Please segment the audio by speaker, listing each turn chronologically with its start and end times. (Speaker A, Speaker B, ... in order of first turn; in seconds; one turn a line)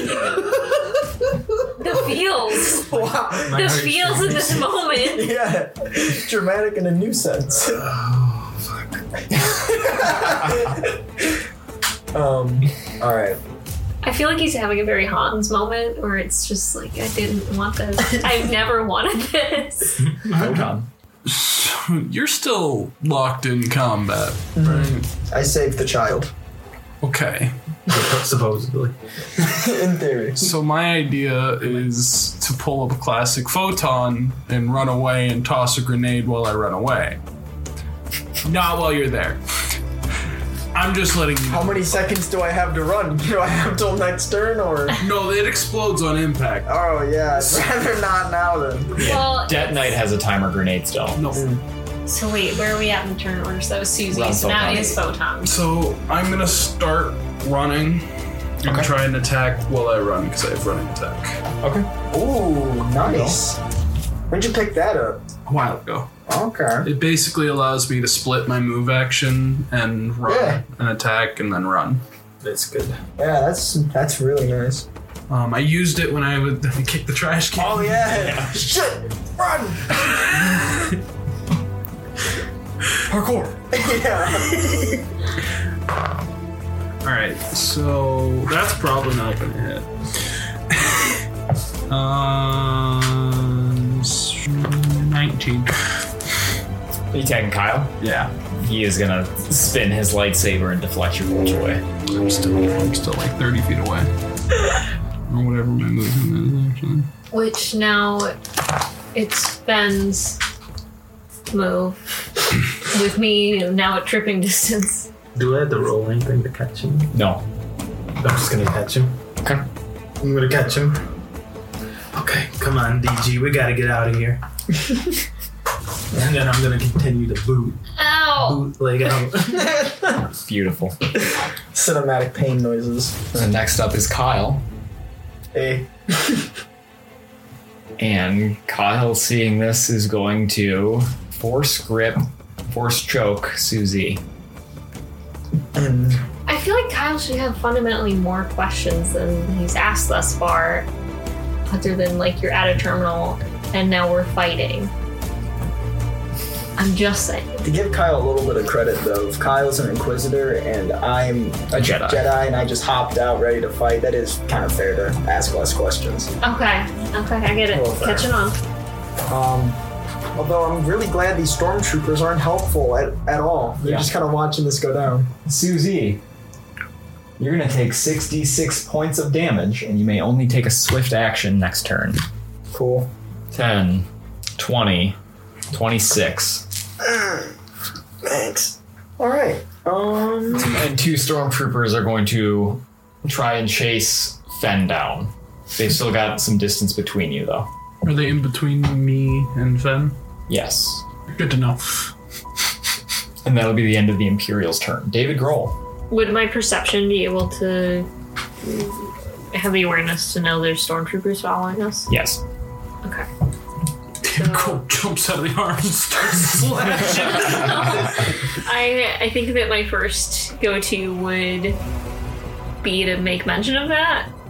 Speaker A: 1.8-2.9
Speaker B: 2.9-3.8
Speaker C: 2.9-4.6
Speaker A: 3.4-5.3
Speaker B: 4.9-7.9
Speaker C: 7.8-9.0
Speaker B: 9.3-11.4
Speaker B: 12.1-13.4
Speaker A: 14.0-20.0
Speaker C: 20.0-20.6
Speaker D: 20.3-20.9
Speaker E: 21.2-25.1
Speaker B: 24.6-26.3
Speaker E: 27.0-27.5
Speaker C: 27.9-29.5
Speaker B: 29.4-30.5
Speaker E: 30.4-37.2
Speaker E: 38.4-39.4
Speaker E: 40.7-41.9
Speaker B: 41.5-45.0
Speaker E: 45.0-46.7
Speaker B: 46.7-49.1
Speaker D: 49.0-51.2
Speaker A: 49.0-50.0
Speaker E: 51.1-51.5
Speaker B: 51.3-51.6
Speaker A: 52.1-55.5
Speaker D: 54.1-55.0
Speaker E: 55.4-58.1
Speaker E: 58.6-61.4
Speaker D: 58.6-58.9
Speaker D: 61.6-61.9
Speaker B: 62.1-63.6
Speaker B: 64.3-65.2
Speaker E: 65.5-66.1
Speaker B: 66.3-66.9
Speaker E: 66.8-72.0
Speaker B: 70.2-70.6
Speaker C: 72.4-73.0
Speaker B: 73.2-74.8
Speaker E: 75.3-78.2
Speaker B: 77.5-80.0
Speaker D: 78.2-78.5
Speaker E: 80.0-81.0
Speaker D: 83.1-83.5
Speaker B: 83.7-84.8
Speaker E: 87.0-91.2
Speaker E: 91.9-96.0
Speaker D: 97.1-98.0
Speaker E: 98.0-98.3
Speaker D: 98.6-101.8
Speaker E: 102.0-104.1
Speaker E: 105.3-107.1
Speaker A: 107.3-108.3
Speaker A: 109.1-110.4
Speaker A: 111.5-112.0
Speaker A: 112.8-115.1
Speaker C: 115.3-117.1
Speaker D: 117.1-117.4
Speaker C: 118.2-119.2
Speaker C: 120.2-121.0
Speaker C: 122.1-124.4
Speaker C: 126.1-127.8
Speaker A: 128.0-128.6
Speaker C: 128.4-129.7
Speaker B: 129.5-130.3
Speaker D: 130.4-130.9
Speaker B: 131.7-133.2
Speaker D: 133.3-134.6
Speaker B: 135.5-136.5
Speaker D: 138.0-144.2
Speaker B: 145.7-146.2
Speaker A: 146.5-150.9
Speaker A: 151.7-154.9
Speaker A: 156.8-157.6
Speaker B: 157.6-166.3
Speaker D: 161.7-162.3
Speaker A: 166.4-168.6
Speaker B: 167.7-168.3
Speaker B: 169.3-169.8
Speaker B: 170.3-175.3
Speaker D: 173.8-174.1
Speaker D: 175.4-176.2
Speaker D: 177.4-182.2
Speaker B: 182.7-183.1
Speaker D: 183.5-185.2
Speaker D: 185.7-186.7
Speaker B: 187.0-187.5
Speaker B: 188.2-190.8
Speaker D: 190.5-197.7
Speaker E: 198.0-200.2
Speaker D: 200.5-201.0
Speaker E: 201.3-202.1
Speaker D: 203.4-205.8
Speaker A: 206.1-208.1
Speaker A: 208.6-212.1
Speaker D: 212.1-212.4
Speaker E: 214.2-218.2
Speaker A: 214.2-214.8
Speaker A: 216.9-221.8
Speaker A: 222.8-224.3